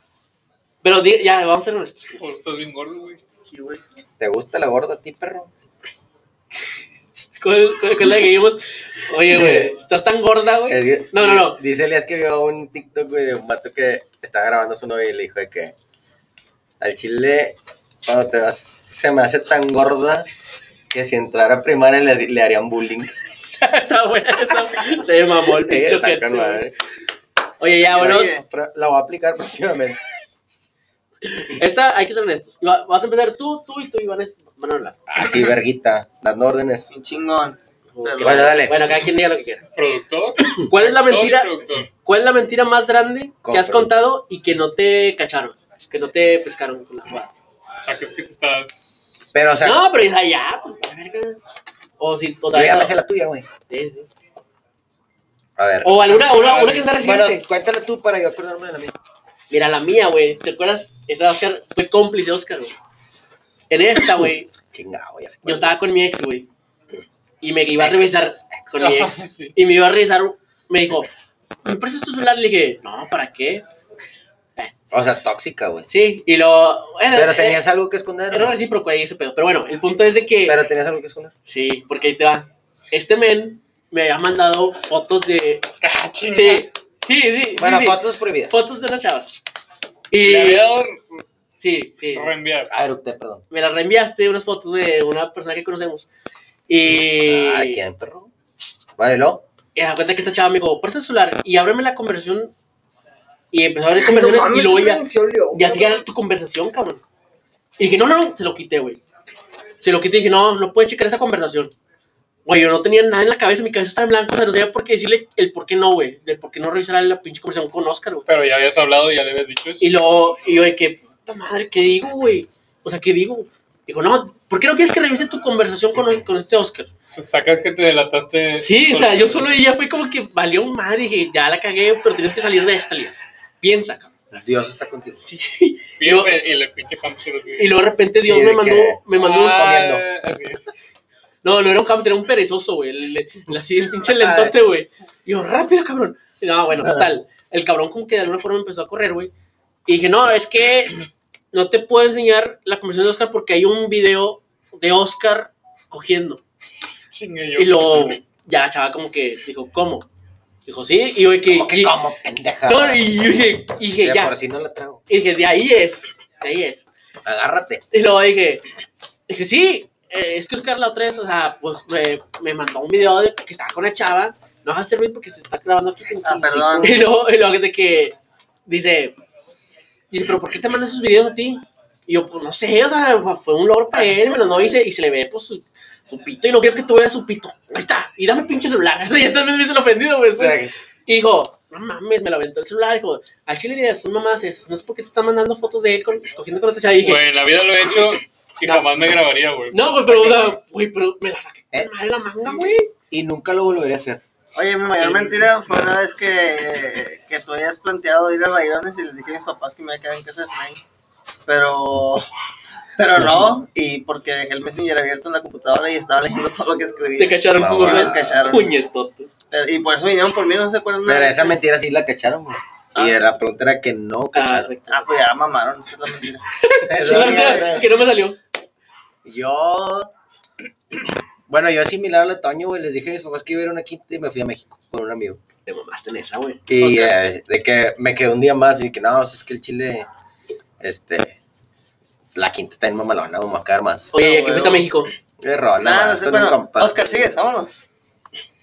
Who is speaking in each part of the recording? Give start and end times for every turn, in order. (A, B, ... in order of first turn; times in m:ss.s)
0:00.8-0:02.4 A
0:02.2-0:03.2 B
0:03.5-0:03.8 C
0:04.2-0:05.5 D
0:07.4-0:11.6 A
0:09.3-0:09.7 D
0:10.7-0:15.7 D
0:16.8-0:20.3 D
0:20.9-0:23.1 D
0:23.6-0:26.6 A
0:25.6-0:26.7 D
0:27.6-0:28.3 A
0:27.9-0:28.4 C
0:28.0-0:30.0 D
0:31.3-0:35.0 A
0:35.1-0:36.9 D
0:36.9-0:38.6 C
0:37.9-0:39.6 A
0:38.2-0:38.8 D
0:39.8-0:41.9 B
0:40.6-0:47.3 A
0:43.4-0:43.9 D
0:47.8-0:49.2 B
0:49.3-0:49.8 D
0:49.6-0:51.4 A
0:52.0-0:52.9 A
0:52.5-0:53.5 D
0:53.7-0:54.1 A
0:55.6-0:56.1 D
0:55.8-0:57.4 A
0:56.1-0:57.0 B
0:57.0-0:59.0 D
0:59.5-1:02.8 A
1:03.7-1:04.5 A
1:04.7-1:05.8 D
1:05.4-1:06.5 A
1:07.4-1:11.1 A
1:07.8-1:08.8 D
1:08.8-1:09.6 B
1:11.6-1:13.6 A
1:14.9-1:15.9 D
1:15.9-1:17.6 A
1:17.1-1:18.6 D
1:18.3-1:20.6 A
1:20.5-1:21.3 D
1:21.4-1:25.7 A
1:25.8-1:26.7 B
1:26.3-1:29.4 A
1:27.6-1:28.7 D
1:30.1-1:30.7 A
1:30.2-1:31.2 B
1:31.6-1:32.3 A
1:32.2-1:32.7 B
1:32.7-1:33.4 D
1:33.5-1:36.1 A
1:36.7-1:37.8 A
1:36.9-1:38.3 D
1:39.0-1:39.4 D
1:39.8-1:42.5 A
1:43.5-1:45.0 A
1:44.0-1:46.0 C
1:45.5-1:47.0 A
1:47.8-1:49.0 A
1:49.8-1:51.7 A
1:52.4-1:58.3 A
1:58.3-1:59.9 B
1:59.8-2:06.9 A
2:07.1-2:09.6 B
2:08.6-2:14.1 A
2:14.3-2:15.2 D
2:15.2-2:16.3 A
2:16.0-2:17.8 B
2:17.6-2:19.7 A
2:18.2-2:20.0 D
2:19.1-2:20.7 B
2:21.4-2:29.3 A
2:24.2-2:24.5 D
2:29.9-2:31.0 A
2:31.5-2:36.4 A
2:37.1-2:38.2 B
2:37.6-2:40.1 A
2:40.7-2:42.0 A
2:41.5-2:45.0 D
2:42.7-2:44.4 A
2:45.1-2:46.9 A
2:47.2-2:47.8 D
2:47.9-2:48.6 A
2:49.3-2:58.2 A
2:56.2-2:57.1 D
2:56.2-2:57.0 C
2:58.7-2:59.2 A
3:00.1-3:17.2 A
3:10.4-3:10.7 D
3:17.0-3:20.4 B
3:18.6-3:19.0 A
3:19.7-3:22.9 A
3:22.4-3:24.2 D
3:24.6-3:30.8 C
3:25.0-3:25.5 A
3:31.5-3:32.3 C
3:33.0-3:38.7 C
3:37.2-3:39.3 A
3:37.6-3:38.3 D
3:39.5-3:41.6 C
3:41.0-3:44.7 D
3:43.0-3:43.3 C
3:44.3-3:45.1 A
3:44.9-3:46.4 C
3:46.6-3:48.4 A
3:46.8-3:47.9 D
3:47.0-3:47.7 C
3:49.2-3:50.1 D
3:50.9-3:55.4 D
3:55.7-3:56.6 A
3:56.7-4:00.1 D
3:56.8-3:57.2 C
4:00.8-4:01.4 D
4:02.4-4:04.2 D
4:04.1-4:05.1 A
4:04.1-4:04.9 C
4:05.4-4:07.3 D
4:05.8-4:07.9 C